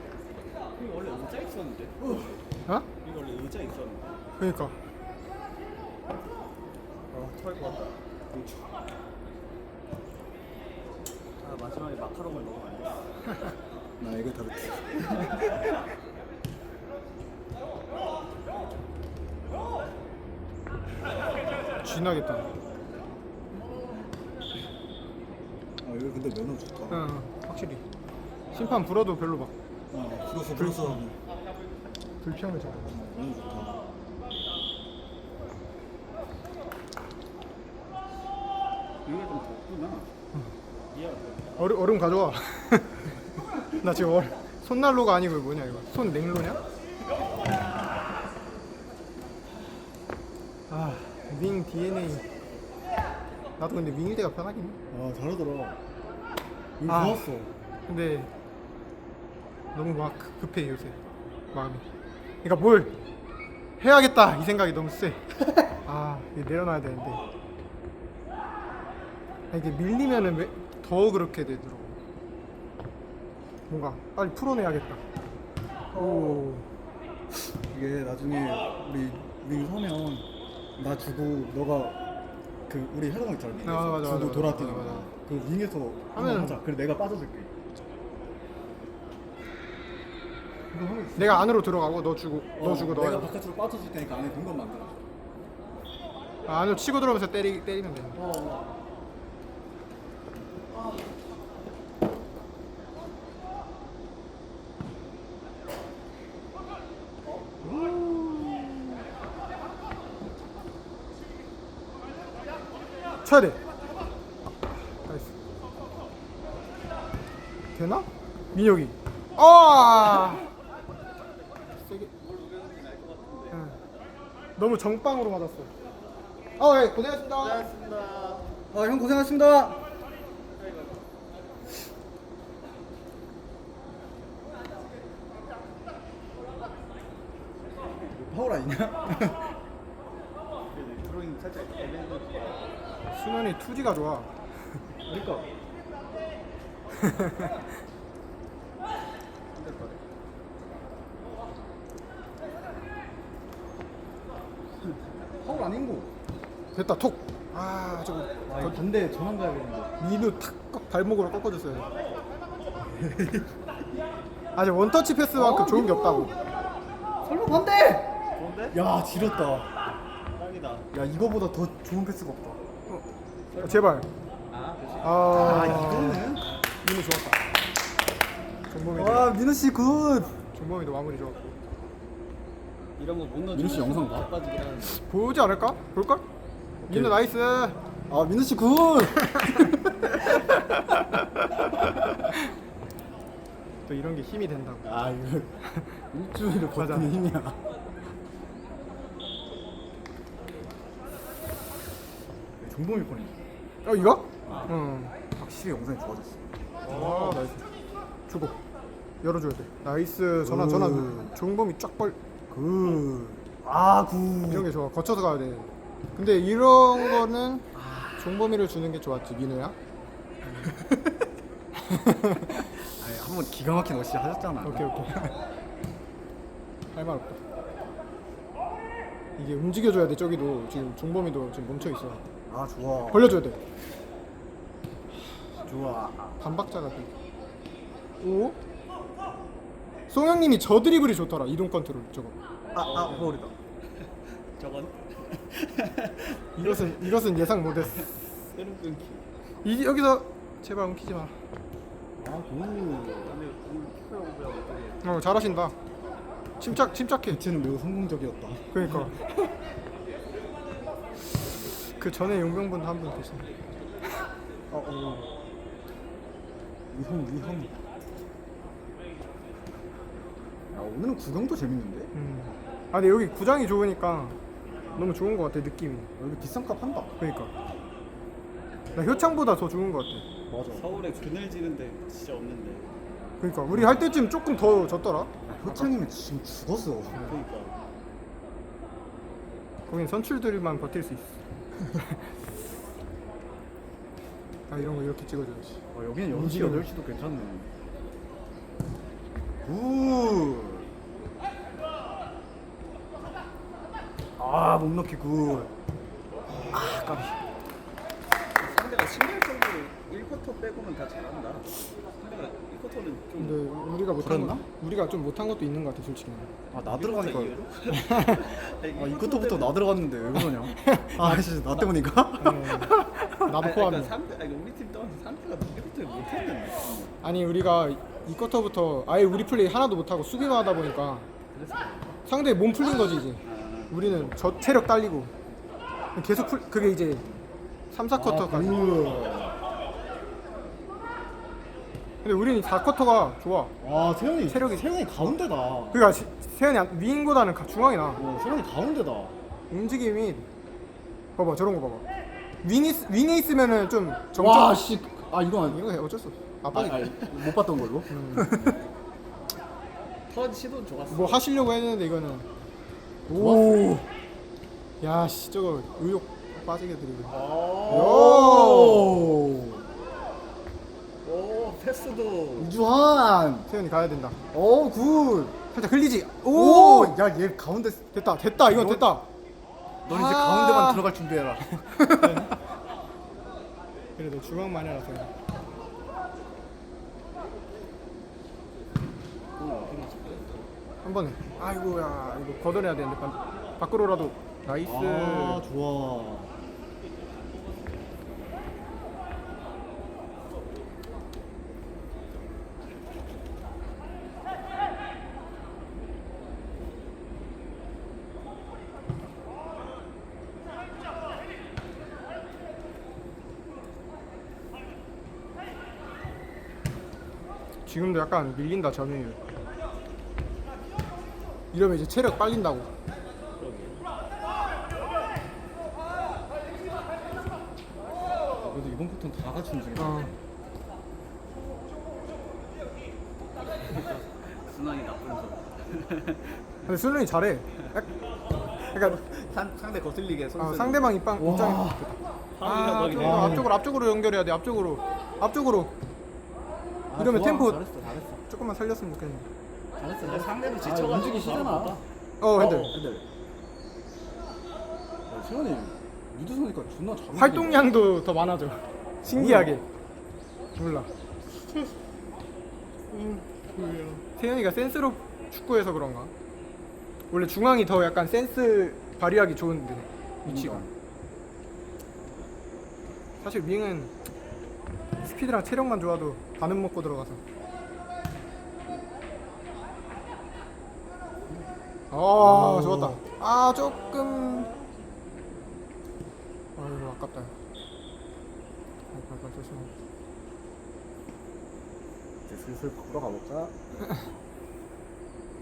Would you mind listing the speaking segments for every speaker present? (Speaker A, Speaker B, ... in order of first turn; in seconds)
Speaker A: 0.7-2.0, 3.0-4.1, 7.1-8.0, 11.4-13.1, 39.0-40.1, 40.9-41.6, 122.2-123.6, 127.4-128.5, 140.7-142.7, 149.5-150.0, 168.4-168.8, 170.3-170.9, 173.5-173.9, 174.5-175.5, 183.0-185.0, 242.8-243.4, 244.0-247.1, 248.5-249.3, 253.2-255.1, 280.8-282.9, 287.2-287.8, 308.6-313.7, 316.7-319.8, 323.5-327.1, 331.5-332.1, 333.4-334.3, 360.3-361.4, 367.4-367.7, 371.2-372.7, 423.6-424.0, 433.8-436.6, 438.8-441.1, 442.6-443.7, 450.2-453.0, 484.0-485.3
Speaker B: 2.0-2.4, 8.3-8.6, 14.0-15.3, 25.8-27.1, 29.9-31.2, 32.9-33.9, 54.9-55.8, 56.8-57.5, 75.9-76.5, 77.3-82.0, 82.7-87.5, 90.7-91.6, 92.6-95.0, 98.2-98.7, 128.7-129.8, 138.1-139.6, 145.1-145.5, 155.4-156.1, 158.5-159.9, 162.9-163.5, 165.3-166.3, 167.2-168.1, 168.7-169.7, 170.9-172.6, 175.3-176.5, 178.9-180.4, 183.5-184.3, 186.8-187.2, 188.1-190.1, 194.8-195.6, 196.1-197.6, 202.6-203.4, 204.5-204.7, 205.3-207.6, 210.4-211.3, 212.5-214.7, 217.7-218.2, 222.9-225.2, 232.5-233.3, 235.5-236.4, 242.8-243.5, 252.2-253.3, 257.3-259.1, 264.7-265.3, 266.9-267.8, 270.7-272.1, 276.2-277.1, 280.5-280.9, 283.7-284.0, 285.5-287.3, 295.9-297.7, 299.6-300.9, 304.4-305.7, 306.7-307.3, 314.2-314.7, 316.7-317.6, 318.9-323.5, 338.1-339.6, 343.8-346.1, 348.2-349.4, 354.4-355.8, 356.7-358.7, 363.3-364.1, 367.4-369.9, 372.6-373.7, 374.5-375.6, 376.5-378.1, 378.6-379.2, 380.1-382.6, 389.6-390.5, 394.8-396.5, 428.6-430.4, 441.4-442.0, 443.1-443.7, 447.1-448.4, 450.0-452.0, 452.7-453.2, 455.3-458.1, 459.3-459.8, 463.1-464.2, 470.4-470.9, 482.4-483.2, 492.5-493.8
Speaker C: 4.4-4.8, 21.8-22.5, 26.9-27.8, 28.5-29.5, 30.6-31.0, 32.2-33.0, 41.6-43.1, 43.8-46.6, 50.7-52.2, 53.6-54.8, 56.9-57.2, 57.9-58.3, 59.7-61.0, 61.5-61.8, 62.4-63.0, 63.8-65.2, 65.8-67.2, 69.5-72.0, 73.7-75.0, 75.9-76.7, 83.7-85.1, 86.2-86.6, 91.2-93.3, 96.5-98.2, 107.8-108.5, 113.2-113.6, 115.0-115.3, 117.8-120.5, 121.8-122.1, 123.5-123.8, 124.6-125.7, 126.6-127.7, 143.1-144.3, 147.0-147.5, 156.7-158.8, 160.0-161.9, 164.6-166.3, 173.6-174.1, 175.0-177.4, 178.7-179.3, 180.5-181.6, 184.9-186.3, 186.9-187.8, 193.9-195.0, 196.8-197.2, 203.8-205.2, 206.9-207.6, 208.3-208.6, 209.2-212.2, 214.5-219.8, 220.5-220.9, 221.8-222.7, 224.6-225.3, 226.9-227.4, 229.4-232.2, 233.1-233.6, 236.4-237.1, 238.2-238.6, 240.1-242.3, 246.6-248.1, 249.6-251.4, 255.0-255.8, 256.6-257.4, 258.7-259.5, 261.9-263.5, 272.1-274.4, 274.9-276.1, 277.2-277.5, 278.9-280.3, 283.4-285.9, 289.9-292.3, 294.7-296.9, 306.7-307.2, 313.4-316.5, 317.9-318.6, 320.5-321.5, 322.4-324.1, 327.2-331.3, 332.3-335.3, 336.1-337.2, 337.9-338.9, 342.2-343.7, 344.5-344.8, 345.9-348.2, 349.7-350.5, 351.4-352.1, 352.6-354.8, 355.7-357.2, 358.1-358.6, 361.1-362.5, 363.3-363.9, 365.0-369.2, 373.7-374.4, 375.7-377.2, 378.1-379.3, 380.1-381.1, 381.8-382.6, 384.2-385.3, 391.0-395.6, 417.9-419.4, 421.7-422.9, 430.0-430.3, 436.9-438.1, 440.6-445.9, 447.2-447.8, 448.5-449.5, 452.4-452.9, 457.4-459.9, 460.8-461.1, 464.3-466.3, 467.3-470.8, 473.4-474.1, 475.2-477.4, 482.1-484.7, 486.8-487.5, 489.1-489.9